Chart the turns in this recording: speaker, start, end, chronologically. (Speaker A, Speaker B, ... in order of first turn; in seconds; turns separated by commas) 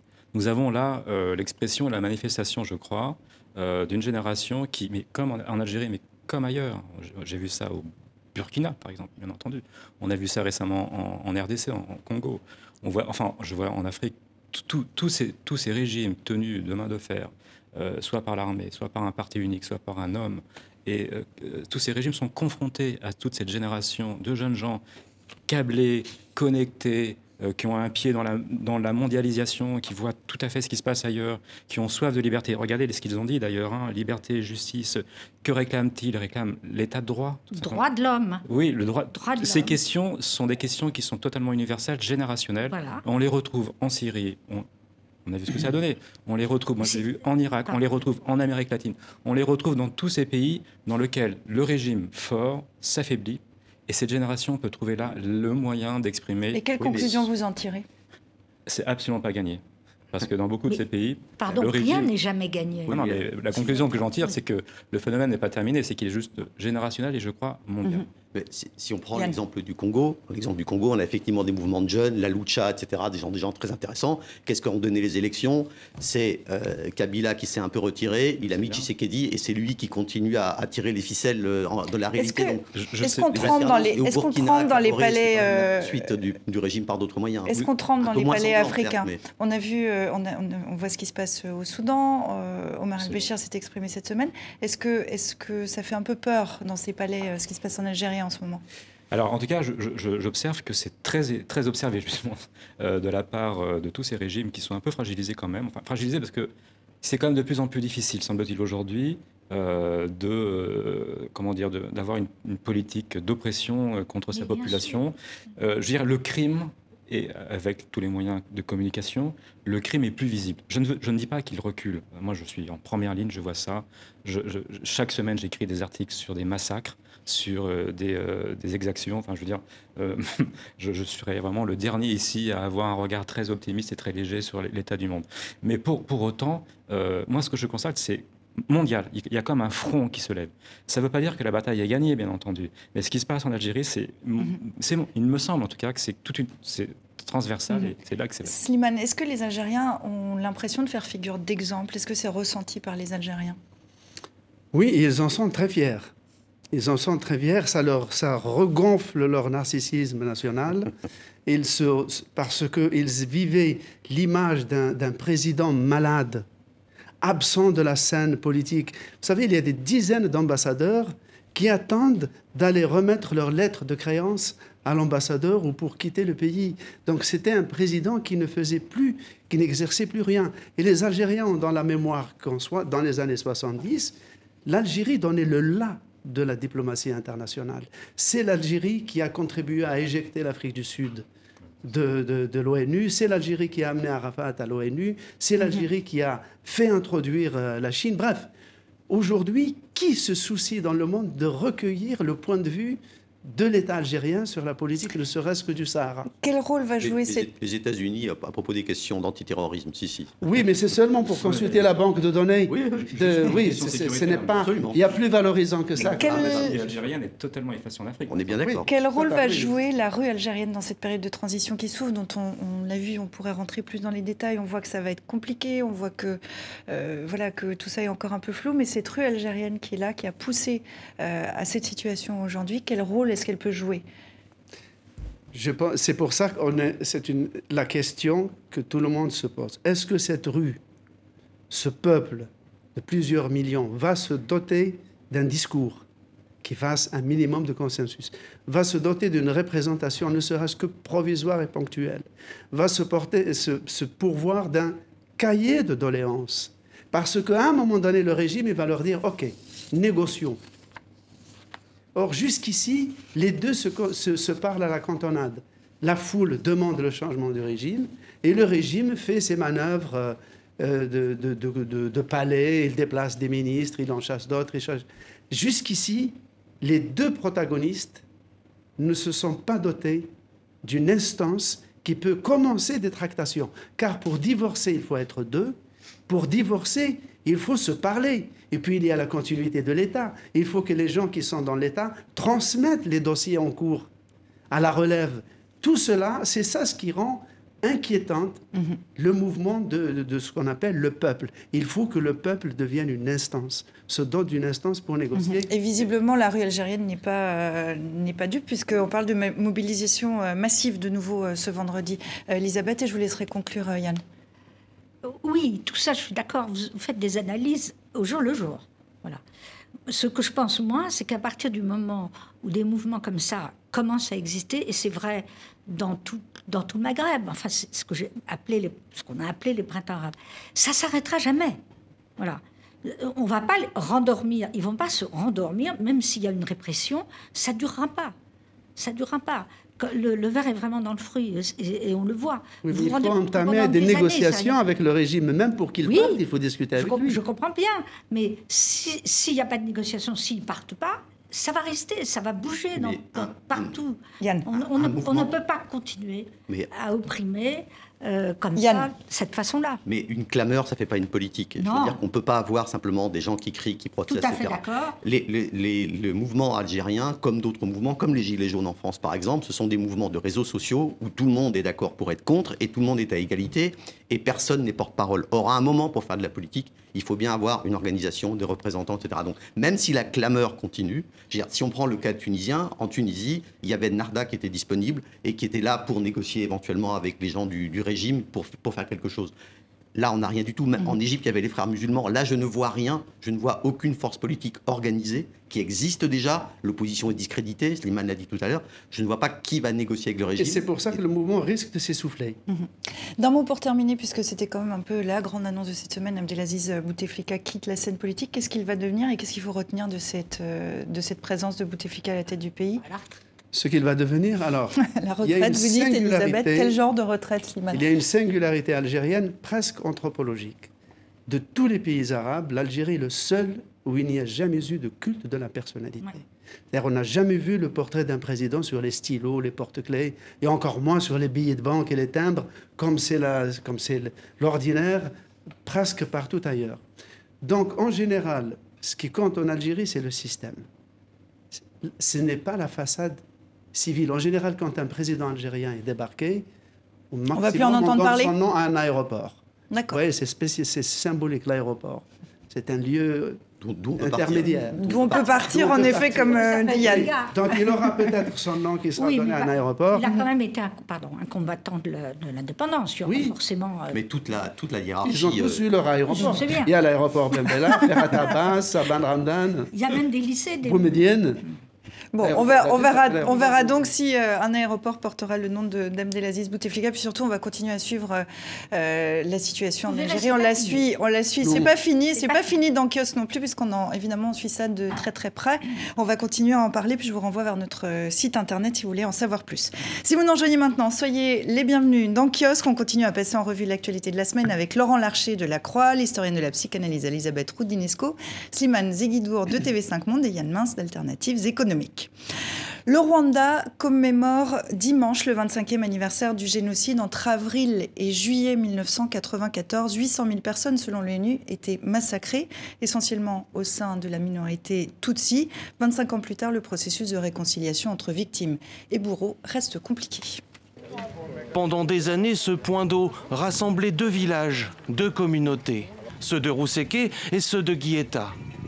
Speaker A: 0.3-24.8, Speaker A: 25.5-37.8, Speaker B: 37.5-38.4, Speaker A: 38.5-44.6, Speaker B: 39.1-39.8, Speaker B: 42.7-43.0, Speaker A: 45.2-57.0, Speaker C: 56.5-57.9, Speaker D: 56.8-57.3, Speaker A: 58.7-59.6, Speaker A: 60.1-62.1, Speaker B: 61.4-63.0, Speaker A: 62.9-68.0, Speaker D: 62.9-64.0, Speaker D: 68.3-89.2, Speaker A: 78.4-78.8, Speaker C: 82.1-86.1, Speaker A: 82.7-83.8, Speaker C: 87.5-98.6, Speaker D: 93.0-93.3, Speaker A: 99.1-106.5, Speaker A: 107.0-148.5, Speaker B: 114.3-115.0, Speaker C: 148.4-153.6, Speaker E: 154.7-156.1, Speaker E: 156.7-160.9, Speaker E: 161.4-166.4, Speaker E: 167.2-184.1, Speaker E: 184.7-191.2, Speaker E: 191.8-198.5, Speaker E: 199.1-206.3, Speaker C: 206.4-207.5, Speaker D: 207.0-210.6, Speaker E: 210.4-216.4, Speaker A: 211.4-211.8, Speaker D: 212.7-213.7, Speaker A: 213.1-214.6, Speaker D: 214.5-215.2, Speaker D: 215.9-216.8, Speaker A: 216.1-218.7, Speaker C: 216.2-216.7, Speaker D: 218.3-218.9, Speaker E: 218.7-219.7, Speaker C: 218.8-234.0, Speaker E: 235.5-240.8, Speaker E: 241.7-246.0, Speaker E: 246.6-260.6, Speaker E: 262.1-278.2, Speaker E: 279.0-280.3, Speaker E: 280.8-285.8, Speaker E: 286.3-294.1, Speaker E: 294.7-298.6, Speaker E: 299.1-306.0, Speaker C: 305.4-314.2, Speaker B: 315.2-319.4, Speaker B: 320.1-331.8, Speaker B: 332.4-338.3, Speaker B: 338.9-344.8, Speaker E: 342.8-347.4, Speaker B: 346.0-346.4, Speaker B: 346.9-360.0, Speaker D: 352.9-354.0, Speaker C: 354.4-354.8, Speaker D: 354.9-355.5, Speaker C: 358.8-359.1, Speaker D: 360.0-389.5, Speaker B: 361.8-362.2, Speaker B: 364.3-365.2, Speaker D: 390.1-401.2, Speaker E: 400.6-402.6, Speaker C: 402.7-413.0, Speaker B: 413.0-413.3, Speaker E: 413.7-416.9, Speaker C: 415.0-418.1, Speaker E: 417.9-420.9, Speaker E: 421.5-435.3, Speaker E: 435.8-437.0, Speaker E: 437.6-440.8, Speaker E: 441.7-443.4, Speaker E: 443.9-446.6, Speaker E: 447.3-449.6, Speaker C: 447.5-448.5, Speaker C: 449.9-450.2, Speaker E: 450.1-453.6, Speaker D: 453.8-455.5, Speaker E: 454.2-460.3, Speaker C: 455.0-457.3, Speaker B: 455.3-457.5, Speaker B: 459.2-464.2, Speaker E: 463.2-463.6, Speaker D: 464.1-465.8, Speaker E: 465.2-469.9, Speaker B: 466.3-466.9, Speaker B: 469.9-471.2, Speaker E: 470.8-471.6, Speaker C: 472.3-502.3, Speaker E: 472.4-474.1, Speaker B: 480.1-481.1, Speaker E: 481.6-481.9, Speaker B: 482.3-482.7, Speaker C: 503.1-520.6, Speaker F: 521.7-528.6